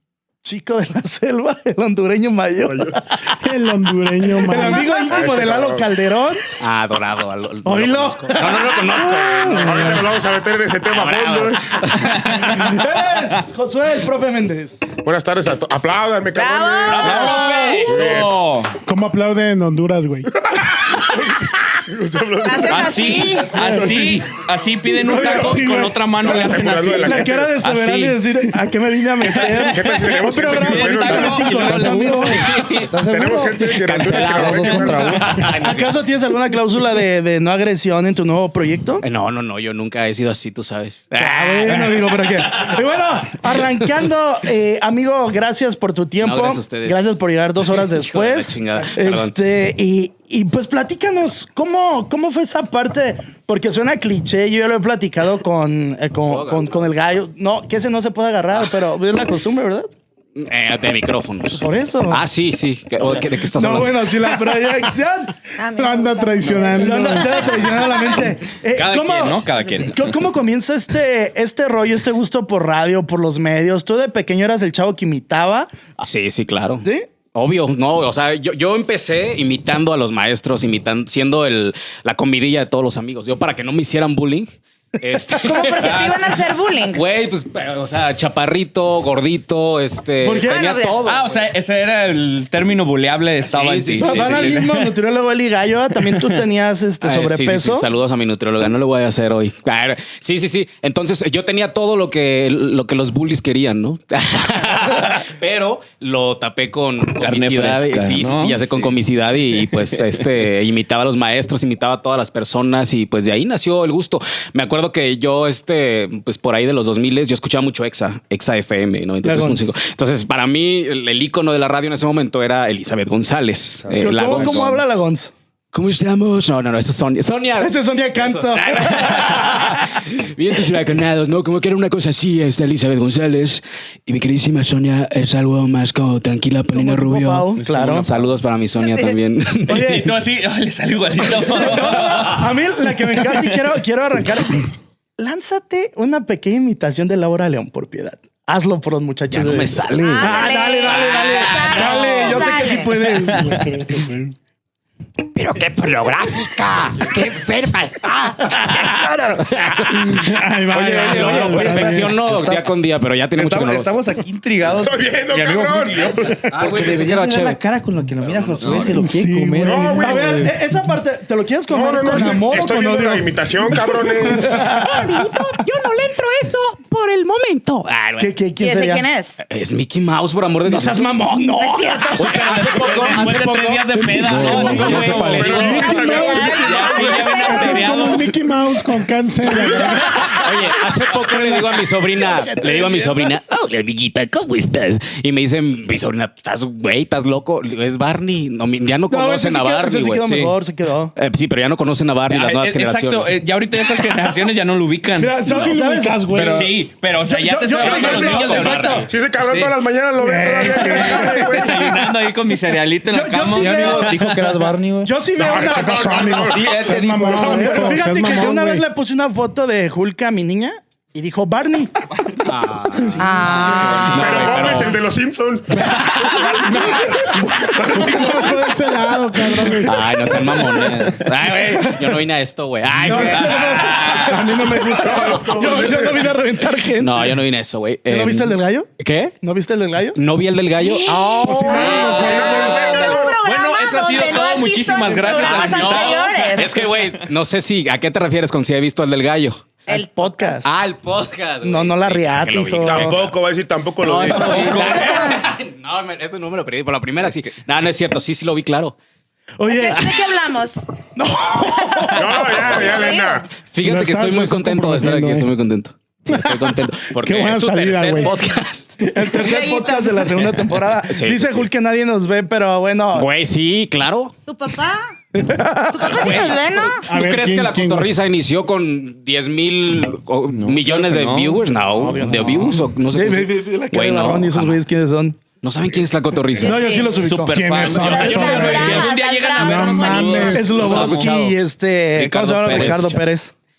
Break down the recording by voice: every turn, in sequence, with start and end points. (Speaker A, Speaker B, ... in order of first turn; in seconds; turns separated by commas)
Speaker A: 0.4-3.1, Speaker B: 2.7-3.0, Speaker C: 3.3-4.9, Speaker A: 4.4-6.4, Speaker B: 5.0-5.9, Speaker D: 6.6-10.1, Speaker A: 7.6-10.0, Speaker B: 9.5-11.8, Speaker D: 10.9-12.9, Speaker A: 12.3-14.8, Speaker B: 15.0-18.4, Speaker E: 16.3-17.9, Speaker F: 16.9-18.8, Speaker C: 18.8-20.3, Speaker B: 20.5-24.2, Speaker E: 22.4-23.6, Speaker F: 22.6-28.5, Speaker C: 23.6-24.1, Speaker A: 25.1-25.7, Speaker B: 25.1-27.6, Speaker C: 25.2-26.7, Speaker A: 26.8-32.4, Speaker F: 29.2-33.0, Speaker B: 29.3-31.9, Speaker G: 31.6-35.5, Speaker B: 33.0-35.3, Speaker D: 33.8-36.0, Speaker A: 35.6-39.0, Speaker D: 39.0-42.9, Speaker A: 41.2-59.9, Speaker D: 46.2-49.3, Speaker D: 56.3-56.7, Speaker D: 60.4-64.2, Speaker A: 61.6-62.2, Speaker A: 63.0-65.3, Speaker E: 65.6-68.2, Speaker C: 65.8-67.4, Speaker F: 66.4-66.7, Speaker A: 66.8-75.7, Speaker F: 68.6-70.1, Speaker D: 76.0-91.3, Speaker A: 76.8-77.1, Speaker A: 85.3-85.8, Speaker E: 85.5-87.0, Speaker F: 85.8-86.4, Speaker A: 90.2-90.8, Speaker E: 90.5-91.1, Speaker F: 91.0-94.9, Speaker D: 93.4-94.7, Speaker A: 94.0-97.9, Speaker F: 96.0-96.4, Speaker D: 97.0-125.0, Speaker F: 107.2-108.9, Speaker F: 109.6-110.2, Speaker A: 119.2-119.7, Speaker G: 123.9-124.4, Speaker A: 123.9-125.3, Speaker D: 125.7-140.0, Speaker A: 127.6-130.0, Speaker A: 136.7-138.1, Speaker F: 137.6-138.1, Speaker E: 138.8-139.2, Speaker A: 139.7-140.1, Speaker F: 139.7-142.5, Speaker A: 141.4-153.6, Speaker D: 149.3-152.6, Speaker E: 149.9-152.9, Speaker F: 153.1-153.8, Speaker C: 153.3-154.3, Speaker D: 155.3-163.9, Speaker C: 159.9-162.1, Speaker G: 160.7-162.7, Speaker G: 163.3-170.5, Speaker B: 164.7-166.5, Speaker D: 166.6-167.6, Speaker D: 168.2-168.9, Speaker F: 168.6-169.0, Speaker C: 168.9-170.6, Speaker B: 169.7-170.3, Speaker A: 170.0-173.3, Speaker B: 171.7-174.7, Speaker A: 174.2-175.2, Speaker D: 174.6-178.3, Speaker A: 178.2-179.0, Speaker E: 178.6-179.4, Speaker D: 179.4-181.1, Speaker A: 180.6-182.1, Speaker E: 181.5-183.1, Speaker D: 182.1-183.7, Speaker F: 182.2-188.3, Speaker G: 183.2-185.7, Speaker C: 184.0-190.3, Speaker D: 184.6-186.0, Speaker B: 184.9-186.6, Speaker E: 185.7-188.1, Speaker D: 189.6-200.6, Speaker A: 191.2-193.3, Speaker A: 199.1-201.1, Speaker D: 201.2-203.4, Speaker F: 202.3-205.4, Speaker A: 205.2-206.4, Speaker C: 205.4-206.8, Speaker G: 206.3-206.8, Speaker F: 206.3-209.8, Speaker A: 207.2-209.1, Speaker D: 207.8-209.1, Speaker B: 207.8-212.1, Speaker C: 210.2-211.8, Speaker F: 210.6-214.7, Speaker A: 210.7-211.9, Speaker A: 213.1-214.1, Speaker G: 213.5-215.1, Speaker A: 215.0-216.5, Speaker B: 215.4-217.0, Speaker C: 215.7-218.9, Speaker G: 216.5-218.0, Speaker A: 217.3-224.2, Speaker D: 222.4-225.0, Speaker E: 223.2-224.6, Speaker B: 224.1-226.6, Speaker D: 225.8-226.8, Speaker C: 226.6-230.5, Speaker A: 227.8-228.5, Speaker D: 229.8-234.5, Speaker A: 230.6-230.9, Speaker A: 231.7-232.2, Speaker A: 233.0-237.4, Speaker F: 233.5-234.2, Speaker B: 234.8-236.3, Speaker C: 234.9-236.1, Speaker D: 236.9-239.3, Speaker A: 238.1-238.9, Speaker A: 239.4-240.2, Speaker D: 240.2-241.4, Speaker E: 240.8-246.8, Speaker A: 241.3-241.7, Speaker C: 241.4-242.6, Speaker F: 241.7-247.3, Speaker B: 241.9-243.3, Speaker D: 242.2-242.5, Speaker D: 245.3-249.8, Speaker E: 249.9-250.6, Speaker A: 249.9-250.7, Speaker D: 250.6-253.3, Speaker A: 251.6-253.2, Speaker B: 252.8-255.2, Speaker D: 254.0-258.9, Speaker F: 254.5-255.0, Speaker E: 254.6-255.4, Speaker A: 259.6-260.1, Speaker E: 259.6-260.8, Speaker A: 261.2-262.5, Speaker E: 261.6-263.4, Speaker B: 262.2-263.5, Speaker D: 262.6-262.9, Speaker D: 263.6-269.0, Speaker C: 263.8-265.5, Speaker C: 267.2-268.3, Speaker A: 269.0-273.3, Speaker E: 269.2-270.3, Speaker D: 271.1-271.7, Speaker D: 273.1-274.4, Speaker E: 274.5-275.1, Speaker A: 275.3-276.6, Speaker E: 275.9-277.1, Speaker D: 276.1-284.8, Speaker C: 277.1-278.1, Speaker F: 280.5-281.6, Speaker A: 281.9-285.4, Speaker D: 285.6-287.0, Speaker E: 286.5-287.3, Speaker A: 286.6-287.8, Speaker F: 287.2-291.5, Speaker C: 287.5-291.0, Speaker E: 287.8-290.8, Speaker D: 288.5-288.8, Speaker A: 290.5-293.5, Speaker D: 290.7-291.5, Speaker D: 292.1-293.2, Speaker F: 292.7-293.0